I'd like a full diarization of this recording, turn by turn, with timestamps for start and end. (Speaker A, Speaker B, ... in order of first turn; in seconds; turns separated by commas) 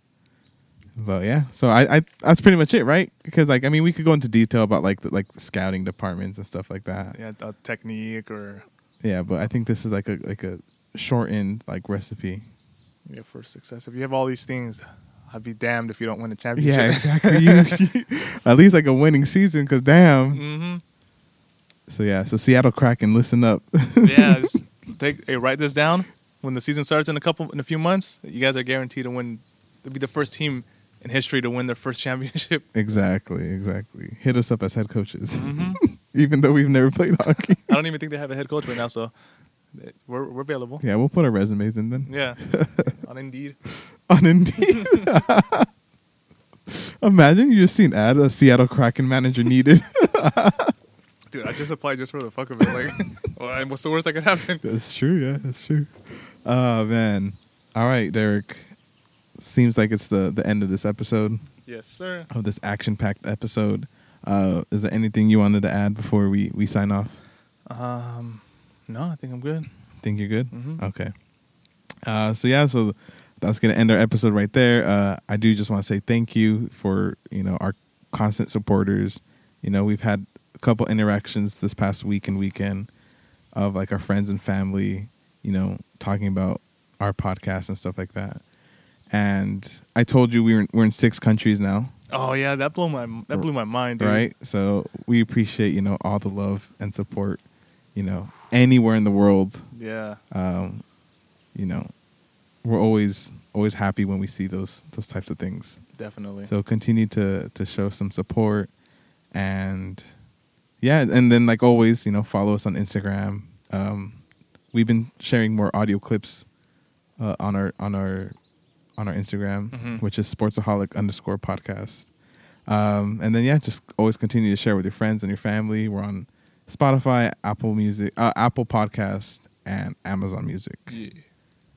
Speaker A: 1.0-7.2, Speaker B: 7.1-8.7, Speaker A: 9.0-12.5, Speaker B: 13.1-17.8, Speaker A: 16.6-20.4, Speaker B: 20.3-20.8, Speaker A: 21.9-24.6, Speaker B: 24.0-32.7, Speaker A: 32.7-37.8, Speaker B: 35.3-35.8, Speaker B: 37.7-39.1, Speaker B: 39.7-40.8, Speaker A: 40.8-42.9, Speaker B: 42.1-43.6, Speaker A: 44.1-45.7, Speaker A: 46.7-50.8, Speaker B: 51.3-54.6, Speaker A: 54.6-58.7, Speaker A: 59.4-61.4, Speaker B: 61.6-62.3, Speaker A: 62.3-67.2, Speaker B: 67.7-69.7, Speaker A: 70.0-71.1, Speaker B: 70.5-70.8, Speaker A: 72.0-82.9, Speaker A: 83.5-88.4, Speaker A: 89.1-91.9, Speaker B: 92.1-94.3, Speaker A: 94.0-97.4, Speaker A: 98.0-99.7, Speaker B: 99.7-100.2, Speaker A: 100.3-100.8, Speaker A: 101.5-101.9, Speaker A: 102.6-105.8, Speaker B: 106.0-106.5, Speaker A: 106.5-108.7, Speaker A: 109.3-110.0, Speaker A: 110.8-114.2, Speaker A: 114.7-116.5, Speaker A: 117.2-118.4, Speaker A: 119.0-122.1, Speaker B: 119.7-120.0, Speaker A: 122.7-130.9, Speaker B: 130.9-131.2